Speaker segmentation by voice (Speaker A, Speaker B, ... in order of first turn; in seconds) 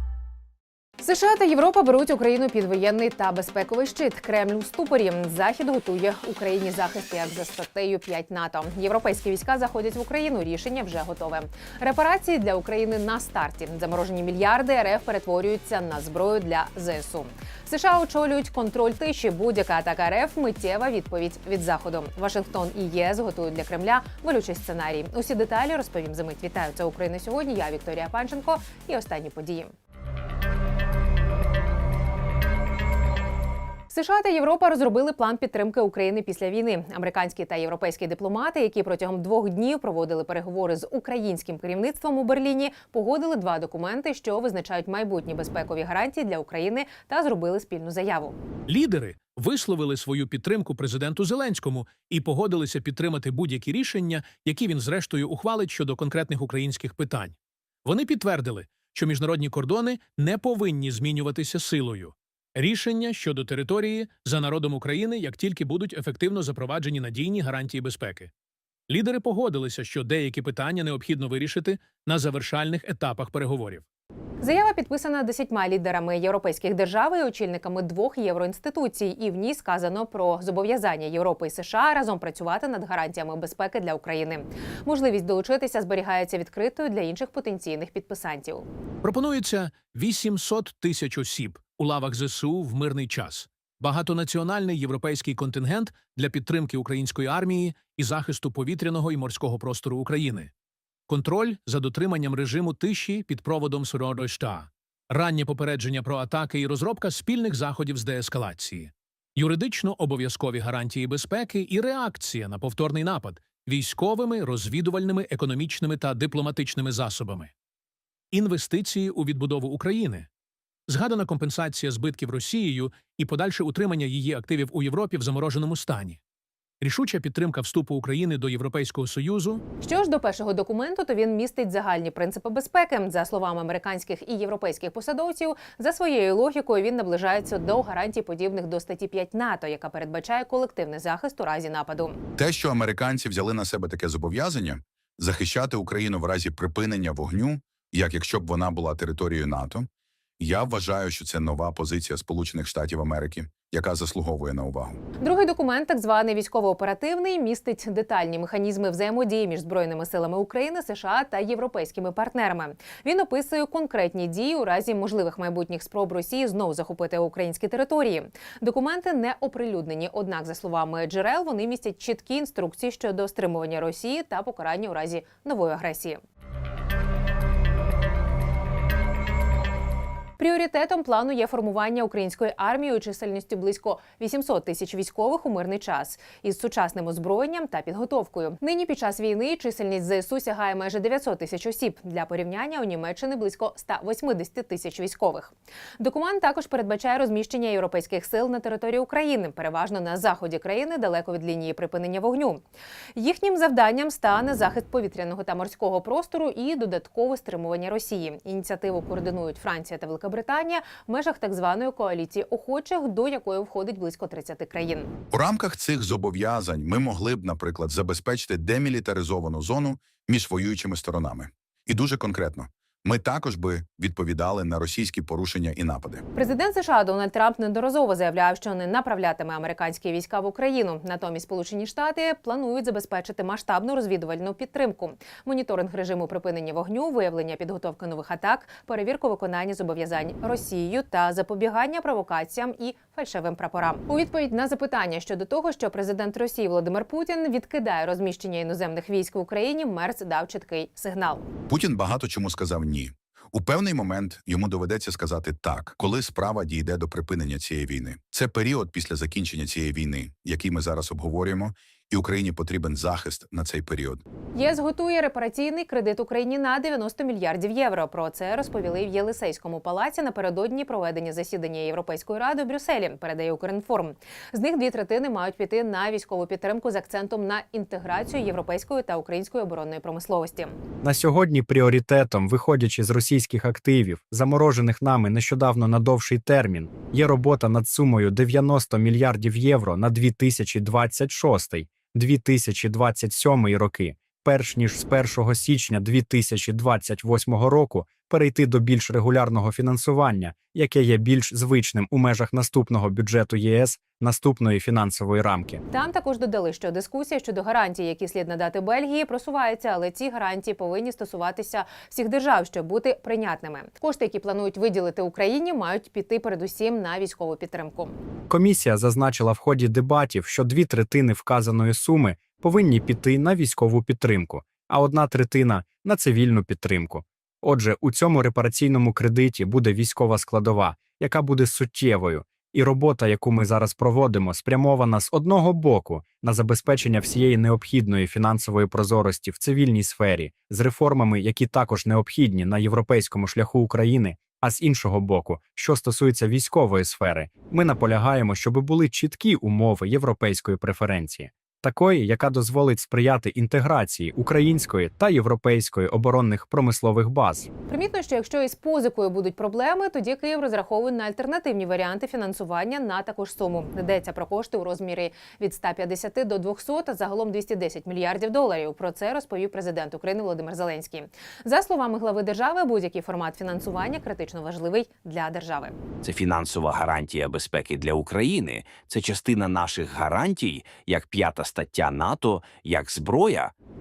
Speaker A: 1.0-29.7, 33.9-48.4, 74.4-88.7, 129.8-142.2, 155.2-176.2, 180.4-202.6, 203.2-215.1, 226.3-251.4, 264.5-280.8, 305.9-318.2, 357.9-375.9
Speaker B: 48.7-68.3, 68.9-73.8, 89.0-100.5, 101.1-117.5, 118.3-120.3, 120.9-126.2, 126.8-129.6
Speaker C: 142.4-149.9, 150.4-155.0, 215.3-226.2, 251.7-264.2
Speaker D: 281.0-305.8, 318.5-357.7
Speaker E: 376.2-383.7